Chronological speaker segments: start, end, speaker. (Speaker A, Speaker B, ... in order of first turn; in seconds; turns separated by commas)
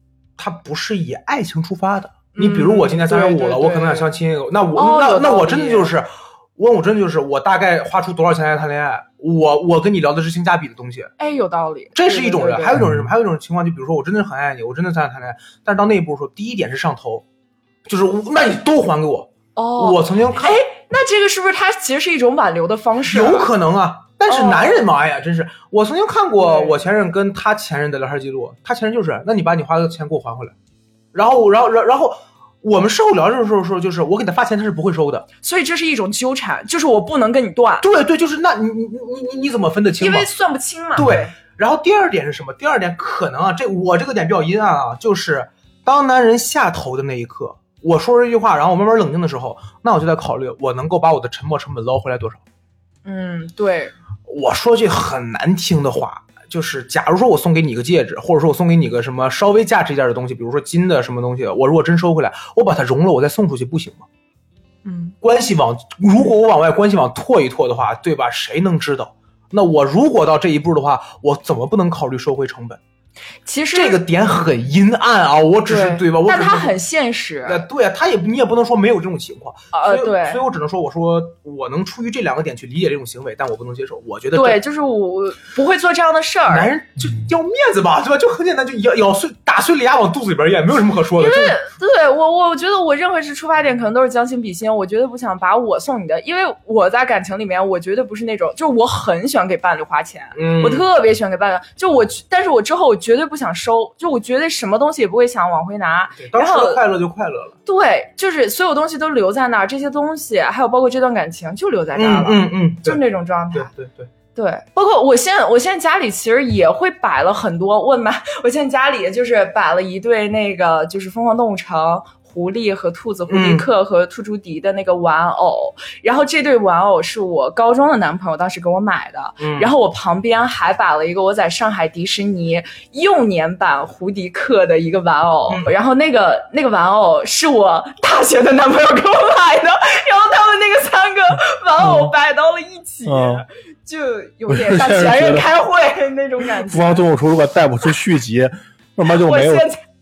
Speaker A: 0.4-11.1, Speaker B: 2.4-4.1, Speaker B: 4.8-6.0, Speaker B: 11.2-12.8, Speaker A: 11.9-17.2, Speaker C: 12.8-13.1, Speaker A: 17.9-20.6, Speaker B: 19.6-23.5, Speaker A: 23.0-30.5, Speaker B: 24.3-24.9, Speaker B: 26.4-26.8, Speaker A: 31.1-35.3, Speaker B: 35.4-37.9, Speaker A: 37.8-40.3, Speaker B: 40.0-41.3, Speaker A: 41.0-52.4, Speaker B: 53.0-53.9, Speaker A: 54.3-64.0, Speaker B: 64.8-65.2, Speaker A: 65.2-72.8, Speaker B: 73.5-74.0, Speaker A: 73.7-76.8, Speaker B: 75.7-77.7, Speaker A: 77.5-84.6, Speaker B: 79.7-80.4, Speaker B: 84.3-86.7, Speaker A: 86.5-91.6, Speaker B: 91.2-106.8, Speaker A: 100.3-100.8, Speaker A: 106.2-107.6, Speaker B: 107.7-113.7, Speaker A: 112.0-113.0, Speaker A: 113.5-114.1, Speaker B: 114.3-147.1, Speaker A: 123.3-123.7, Speaker A: 129.4-129.7, Speaker C: 141.8-142.1, Speaker C: 143.1-143.4, Speaker C: 144.5-145.5, Speaker C: 146.6-149.7, Speaker B: 149.1-149.8